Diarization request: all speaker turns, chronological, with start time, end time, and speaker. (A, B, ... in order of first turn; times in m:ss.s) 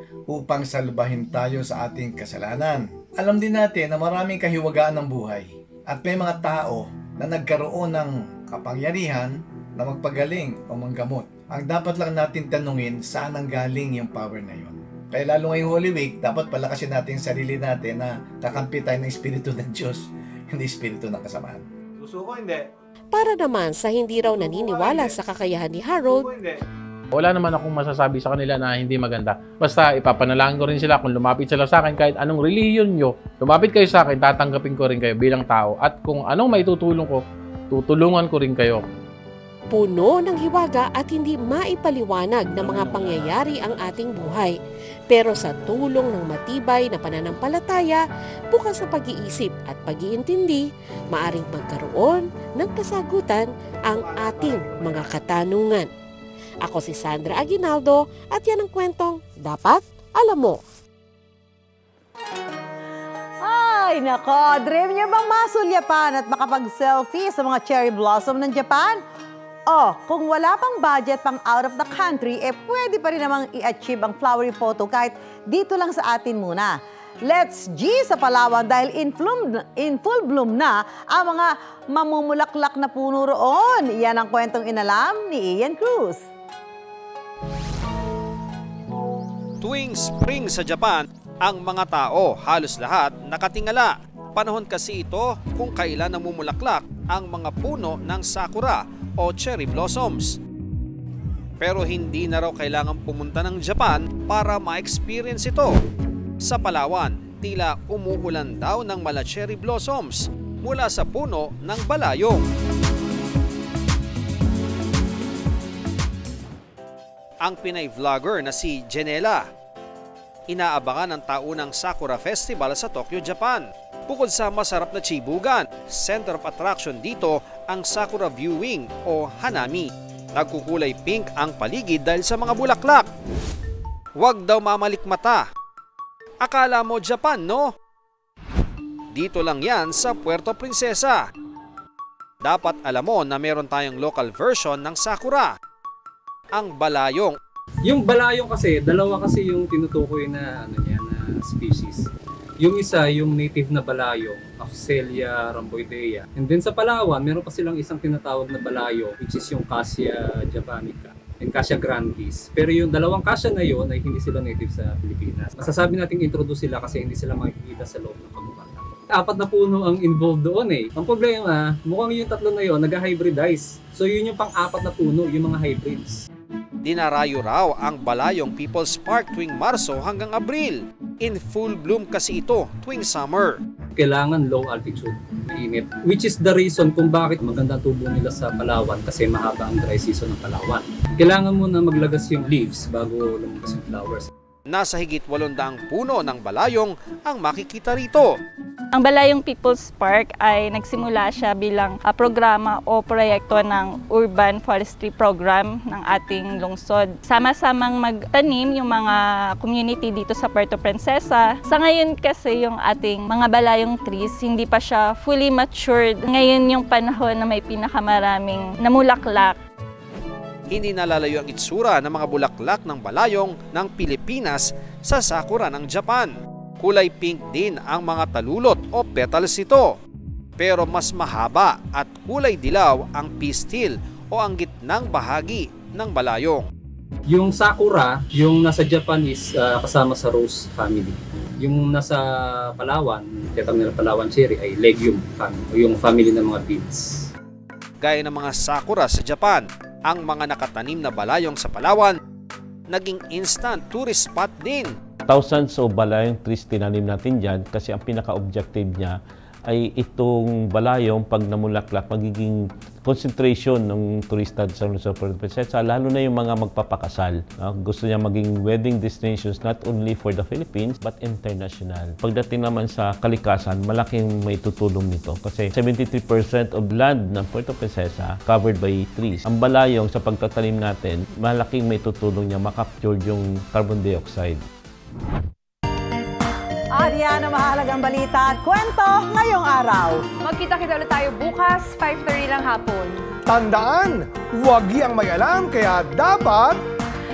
0:00.3-0:21.6 A
0:23.1-0:26.3 B
0:27.1-0:37.2 C
0:37.7-0:38.8 C
0:39.7-0:44.6 B
0:45.1-0:55.9 B
0:56.6-1:00.6 B
1:03.4-1:09.0 D
1:09.7-1:26.2 D
1:29.6-1:40.4 E
1:41.6-1:45.7 E
1:46.4-1:52.4 E
1:57.4-1:59.4 E
2:00.5-2:13.0 E
2:14.2-2:15.4 E
2:16.4-2:17.7 E
2:19.1-2:21.2 E
2:22.4-2:25.5 E
2:26.5-2:27.4 E
2:27.9-2:32.0 F
2:32.6-2:56.2 F
2:56.8-3:03.6 E
3:04.0-3:14.3 F
3:14.7-3:18.3 E
3:18.9-3:39.6 G
3:40.7-3:49.9 E
3:50.6-3:56.6 E
3:57.3-4:07.3 F
4:08.0-4:12.2 E
4:12.9-4:14.9 E
4:15.3-4:19.1 H
4:19.7-4:44.6 H
4:47.0-4:50.2 D
4:50.4-4:53.2 I
4:53.5-4:56.8 J